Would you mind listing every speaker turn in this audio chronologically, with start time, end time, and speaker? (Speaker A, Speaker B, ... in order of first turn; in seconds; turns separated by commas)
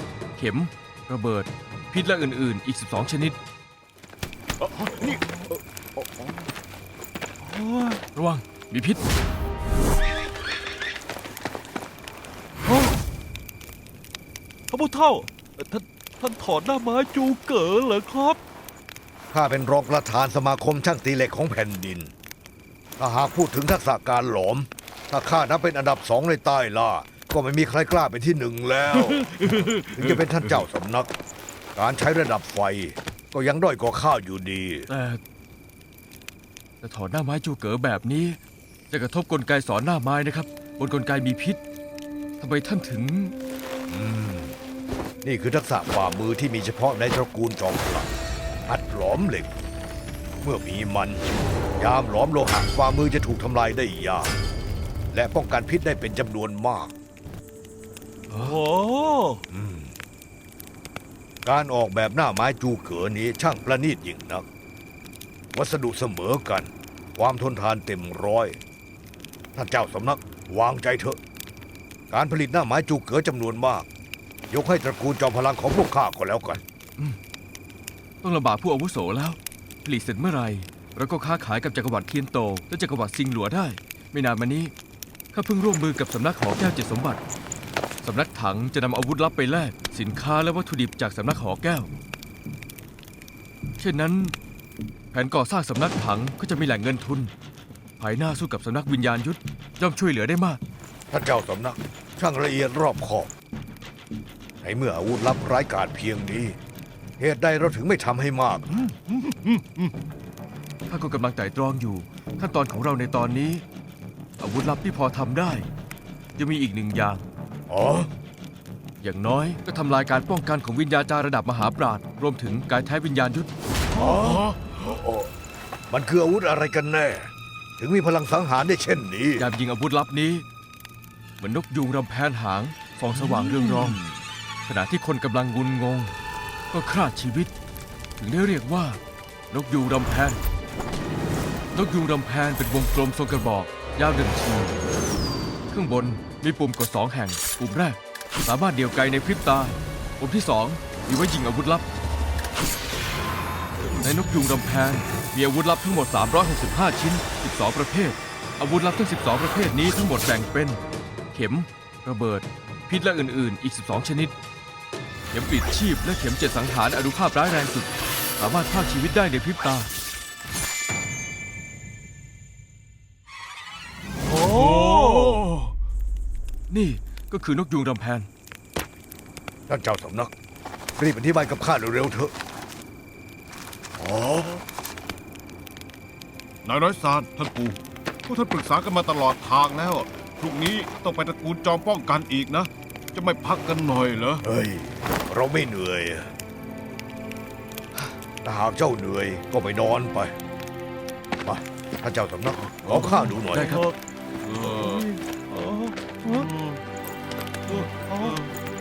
Speaker A: 0.4-3.4, Speaker B: 4.8-6.3, Speaker B: 7.4-8.0, Speaker A: 8.1-9.0, Speaker B: 14.7-18.4, Speaker C: 19.3-22.1, Speaker C: 23.0-31.1, Speaker D: 29.1-30.0, Speaker C: 31.8-34.9, Speaker A: 34.9-35.2, Speaker A: 36.8-38.4, Speaker A: 38.9-41.6, Speaker A: 42.4-43.4, Speaker C: 43.9-44.5, Speaker C: 45.2-48.1, Speaker C: 48.7-49.5, Speaker C: 50.4-54.4, Speaker C: 55.1-56.9, Speaker B: 58.3-59.4, Speaker C: 59.5-60.0, Speaker C: 61.4-64.5, Speaker C: 65.5-68.6, Speaker C: 69.5-71.2, Speaker C: 72.1-73.9, Speaker C: 74.5-76.6, Speaker A: 78.2-84.7, Speaker A: 85.3-87.2, Speaker A: 88.0-91.9, Speaker A: 93.8-94.3, Speaker A: 95.1-97.3, Speaker A: 98.0-100.6, Speaker C: 101.1-103.3, Speaker C: 104.6-106.6, Speaker C: 107.2-109.0, Speaker D: 109.2-109.8, Speaker A: 110.9-113.6, Speaker A: 114.4-115.7, Speaker A: 116.4-117.2, Speaker C: 117.7-118.1, Speaker A: 119.0-123.5, Speaker C: 123.9-125.3, Speaker C: 125.9-129.5, Speaker A: 129.4-130.4, Speaker A: 131.4-134.0, Speaker A: 134.7-136.1, Speaker A: 136.7-137.5, Speaker A: 138.2-139.0, Speaker A: 139.5-140.4, Speaker A: 141.8-144.8, Speaker A: 145.7-151.8, Speaker A: 154.0-160.8, Speaker A: 161.3-164.3, Speaker A: 165.3-169.9, Speaker B: 174.3-175.3, Speaker D: 174.5-175.6, Speaker A: 174.6-175.4, Speaker A: 176.7-178.3, Speaker C: 179.7-180.3, Speaker C: 181.0-182.3, Speaker C: 184.0-184.6, Speaker D: 186.7-194.4, Speaker C: 194.4-196.3, Speaker C: 198.4-200.3, Speaker C: 201.4-203.8, Speaker D: 202.8-203.8, Speaker A: 203.5-203.9, Speaker D: 204.4-205.1, Speaker B: 204.8-206.5, Speaker D: 206.3-206.8, Speaker B: 207.7-208.4, Speaker D: 207.8-208.4